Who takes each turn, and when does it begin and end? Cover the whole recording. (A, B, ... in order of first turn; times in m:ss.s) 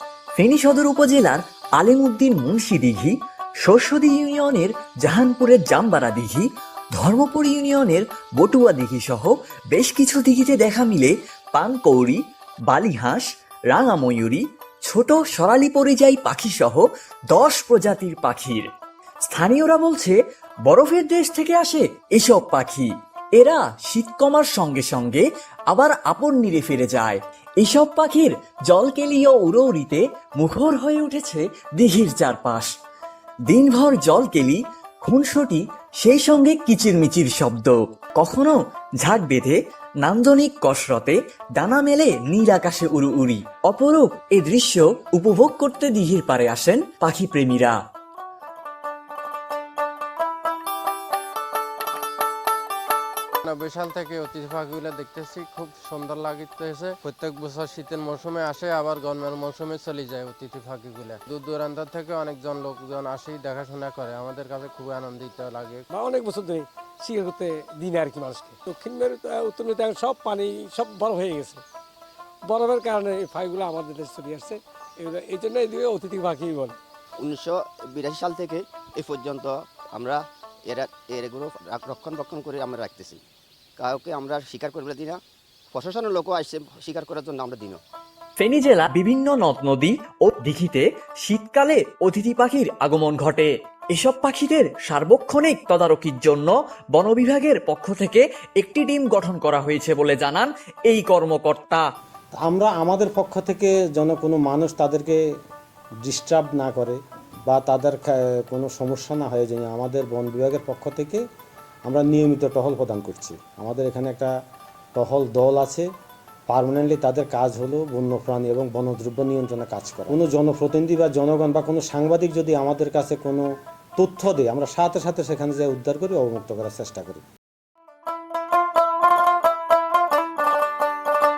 0:00.4-0:18.7 A
0:19.3-0:20.2 A
0:20.7-0:32.7 A
0:33.5-0:47.8 A
0:53.4-1:05.9 B
1:05.9-1:11.6 C
1:12.4-1:16.8 C
1:17.2-1:23.2 D
1:23.8-1:25.2 D
1:25.7-1:27.8 D
1:28.4-1:41.8 A
1:42.4-1:45.2 E
1:46.0-1:51.2 E
1:51.9-1:54.3 E
1:55.0-1:55.8 E
1:56.5-2:03.4 E
2:04.0-2:07.2 E